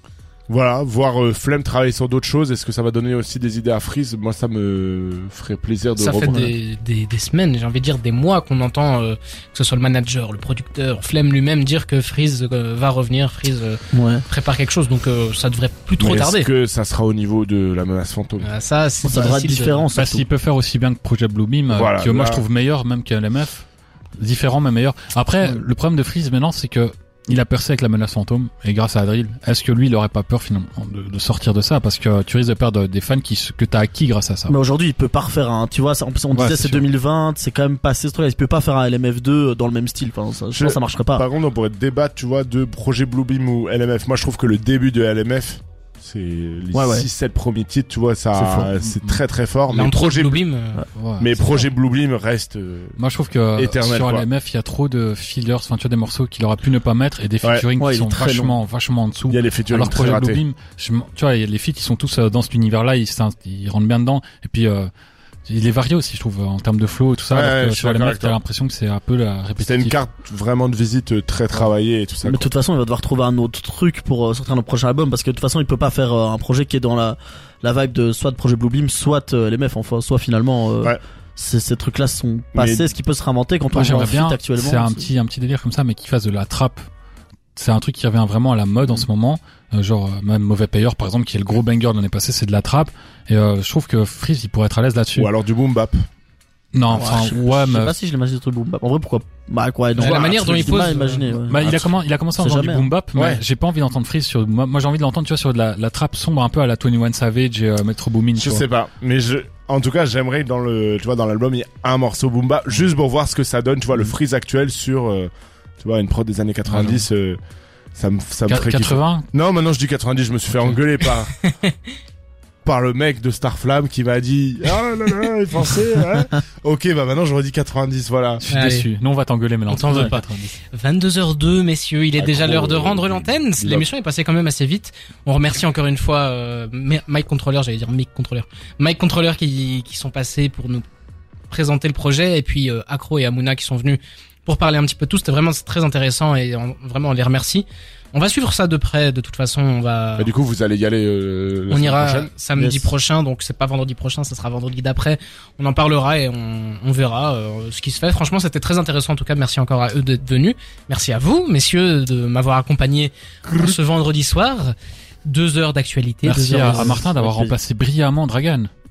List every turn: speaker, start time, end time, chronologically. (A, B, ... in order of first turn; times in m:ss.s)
0:00.5-0:06.5 A
0:06.0-0:16.5 B
0:13.9-0:14.2 C
0:16.0-0:18.5 A
0:18.4-0:19.8 B
0:19.0-0:20.2 C
0:20.0-0:23.6 D
0:21.7-0:22.4 A
0:24.2-0:34.5 D
0:34.5-0:41.2 C
0:36.3-0:36.8 D
0:40.5-0:50.4 A
0:46.7-0:47.1 C
0:48.3-0:48.7 C
0:48.8-0:49.2 D
0:49.7-0:50.8 B
0:51.0-0:51.6 D
0:51.2-0:53.0 A
0:53.0-1:04.9 D
0:53.6-0:54.2 A
0:57.8-0:58.6 C
0:59.3-1:00.4 A
1:05.4-1:09.9 D
1:07.3-1:08.4 A
1:09.6-1:12.5 A
1:12.2-1:25.1 C
1:22.5-1:22.9 A
1:23.7-1:26.8 D
1:27.6-1:35.3 D
1:35.2-1:36.0 A
1:36.7-1:37.9 D
1:36.9-1:41.7 C
1:40.0-1:40.9 A
1:40.0-1:41.3 B
1:41.5-1:48.6 D
1:41.5-1:41.9 A
1:42.4-1:42.9 C
1:43.2-1:43.4 A
1:48.4-1:57.4 A
1:56.6-1:57.0 D
1:57.9-2:01.3 A
1:58.5-1:59.3 D
2:01.4-2:01.8 B
2:02.6-2:08.4 A
2:08.4-2:10.6 D
2:08.5-2:08.9 B
2:09.7-2:20.8 B
2:12.2-2:13.8 A
2:21.5-2:30.3 B
2:30.2-2:32.3 A
2:31.7-2:47.0 B
2:32.5-2:32.9 C
2:46.2-2:48.7 D
2:46.3-2:47.6 C